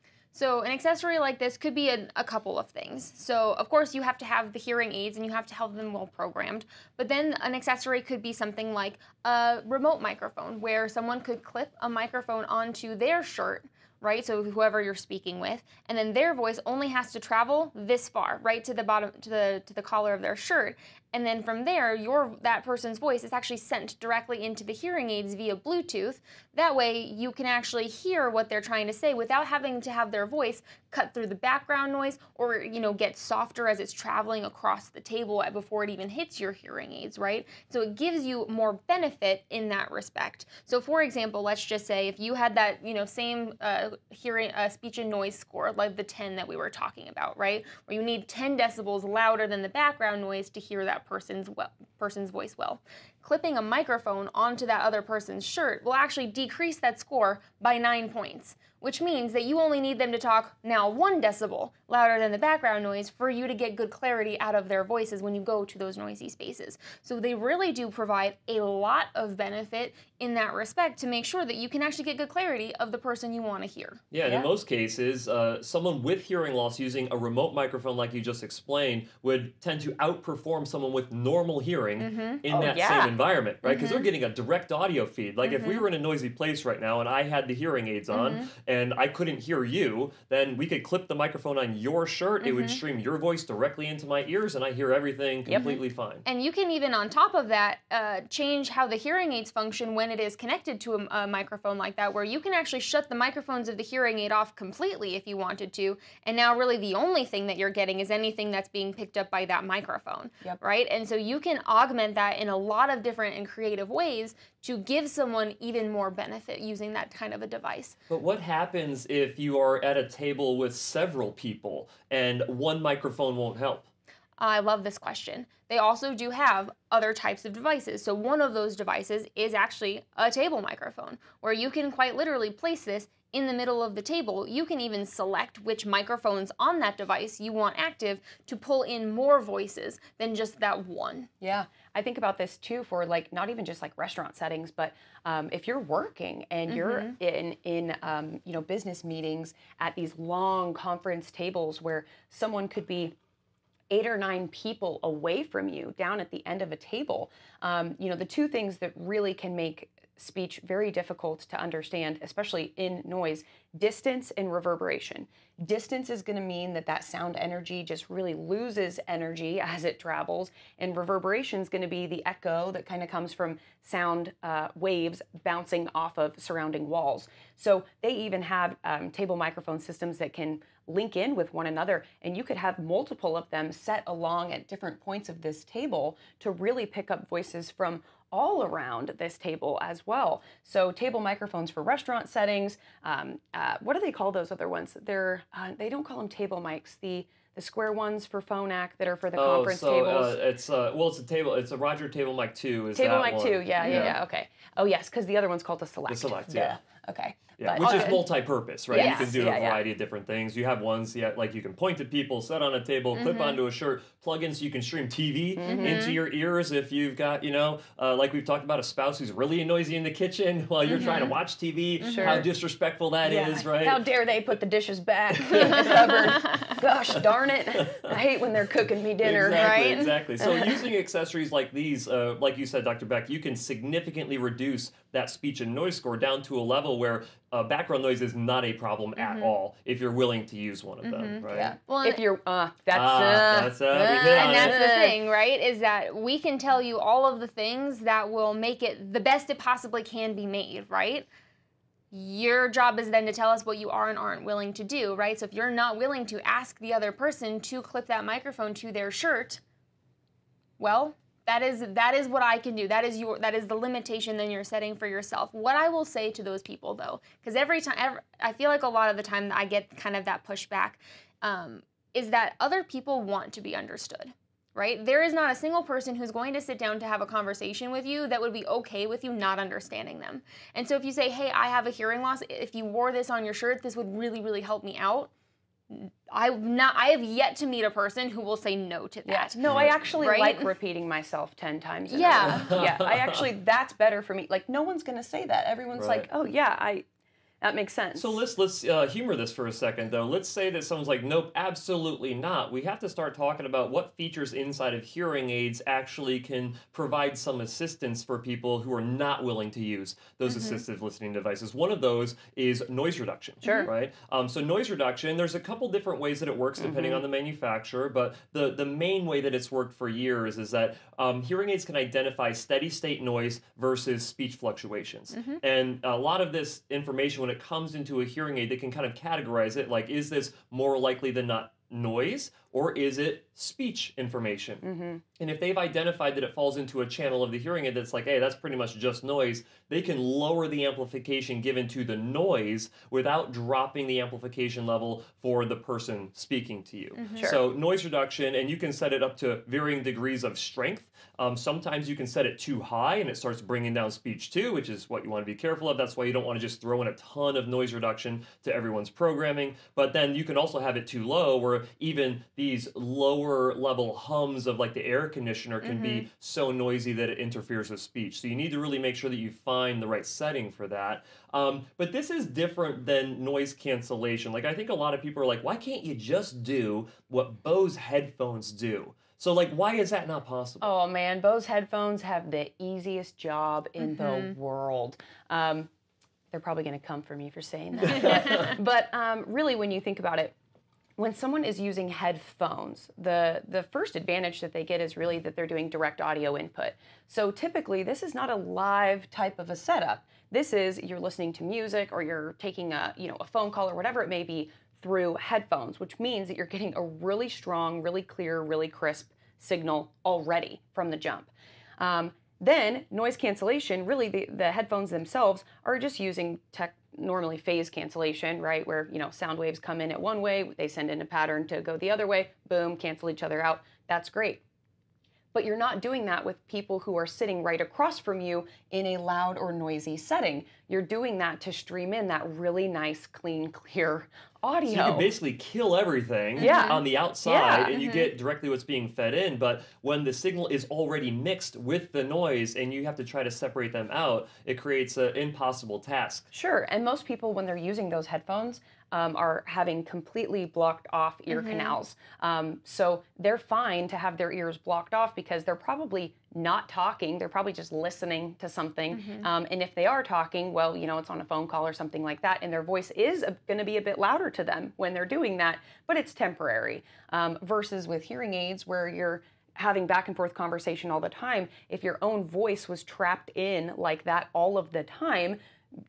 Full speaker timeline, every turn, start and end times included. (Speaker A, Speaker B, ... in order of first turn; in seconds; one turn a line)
Speaker A: 0.3-74.0
Speaker B: 74.1-96.2
Speaker C: 74.2-74.5
Speaker A: 82.0-82.4
Speaker C: 82.5-83.2
Speaker A: 83.7-84.0
Speaker A: 85.4-85.9
Speaker A: 88.1-88.5
Speaker A: 92.4-92.8
Speaker A: 95.5-118.0
Speaker B: 118.1-123.9
Speaker A: 124.4-141.3
Speaker C: 141.4-153.2
Speaker A: 146.7-147.2
Speaker C: 153.9-200.4
Speaker B: 199.3-204.2
Speaker C: 202.9-208.2
Speaker A: 203.8-204.1
Speaker B: 206.1-206.8
Speaker B: 207.6-224.0
Speaker A: 207.8-208.2
Speaker C: 208.9-209.8
Speaker A: 208.9-209.4
Speaker A: 213.2-213.6
Speaker C: 215.6-216.1
Speaker A: 215.7-216.2
Speaker A: 220.9-221.3
Speaker C: 222.0-222.5
Speaker A: 222.1-222.4
Speaker C: 223.2-230.7
Speaker A: 225.7-226.7
Speaker B: 227.9-228.1
Speaker B: 229.2-241.7
Speaker A: 229.5-230.2
Speaker A: 239.2-239.6
Speaker A: 241.0-242.2
Speaker C: 241.5-245.2
Speaker B: 242.9-244.8
Speaker A: 243.9-251.3
Speaker A: 252.1-259.6
Speaker A: 260.8-285.3
Speaker A: 285.9-289.6
Speaker C: 289.3-297.1
Speaker B: 289.7-290.2
Speaker A: 290.2-290.7
Speaker A: 292.1-292.8
Speaker B: 292.4-293.5
Speaker B: 295.9-296.3
Speaker C: 297.6-298.4
Speaker B: 298.1-334.8
Speaker A: 310.5-310.8
Speaker C: 313.6-313.9
Speaker A: 313.6-313.9
Speaker C: 316.8-317.2
Speaker A: 325.3-325.6
Speaker C: 334.8-335.2
Speaker B: 335.4-380.9
Speaker A: 347.2-347.5
Speaker A: 365.8-366.3
Speaker C: 380.8-385.9
Speaker A: 384.0-384.6
Speaker C: 386.5-390.6
Speaker A: 388.1-388.8
Speaker B: 388.1-388.5
Speaker C: 391.2-424.6
Speaker C: 425.5-435.3
Speaker B: 434.9-446.5
Speaker A: 436.6-437.0
Speaker C: 436.6-438.0
Speaker A: 437.9-438.3
Speaker C: 446.5-475.6
Speaker A: 451.5-452.0
Speaker A: 459.1-459.5